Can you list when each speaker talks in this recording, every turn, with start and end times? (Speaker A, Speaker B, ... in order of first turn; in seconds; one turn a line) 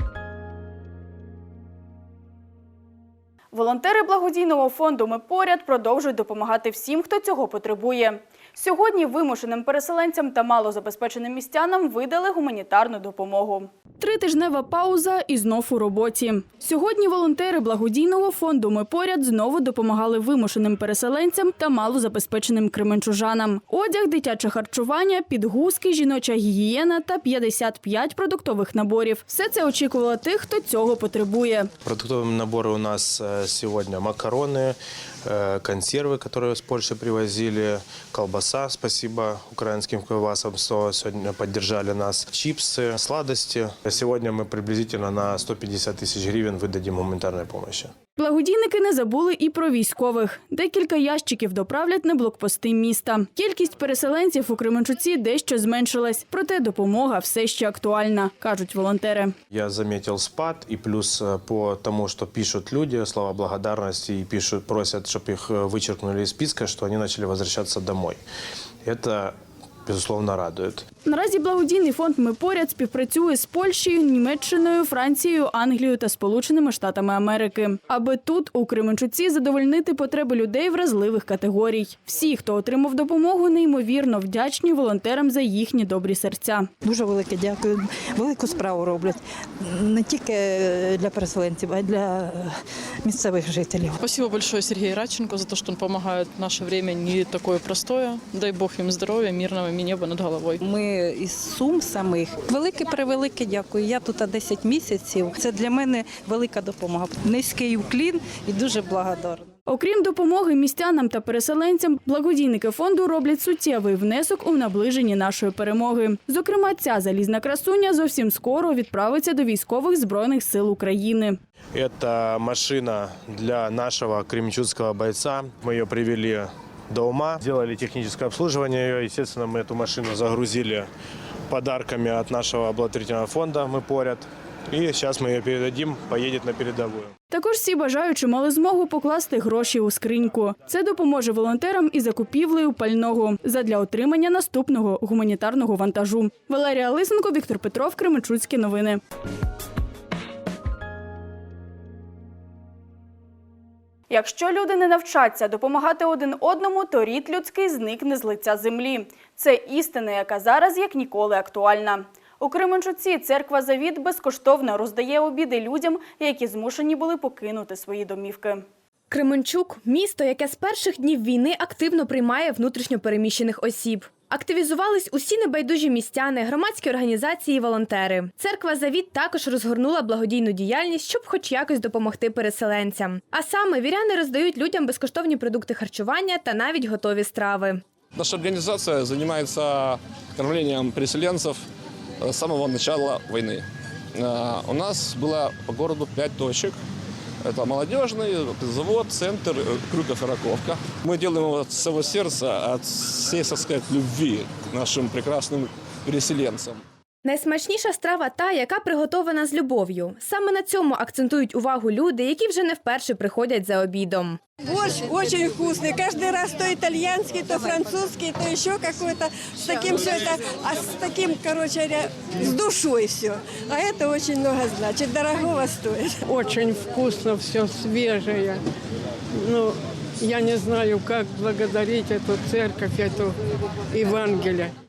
Speaker A: 3.5-31.7
Speaker B: 31.8-47.9
Speaker A: 48.1-59.3
Speaker B: 59.5-68.2
Speaker B: 68.8-70.8
Speaker A: 71.0-86.7
Speaker C: 86.8-94.0
Speaker D: 94.0-100.5
Speaker C: 100.6-109.5
Speaker A: 109.7-121.4
Speaker B: 121.7-130.9
Speaker B: 131.5-137.1
Speaker A: 137.3-149.0
Speaker A: 154.1-168.6
Speaker E: 169.1-187.8
Speaker F: 188.1-191.6
Speaker F: 192.2-193.6
Speaker F: 194.2-196.8
Speaker F: 197.4-206.8
Speaker E: 207.2-214.4
Speaker G: 214.6-226.2
Speaker H: 226.3-228.6
Speaker H: 229.4-233.3
Speaker H: 233.9-234.7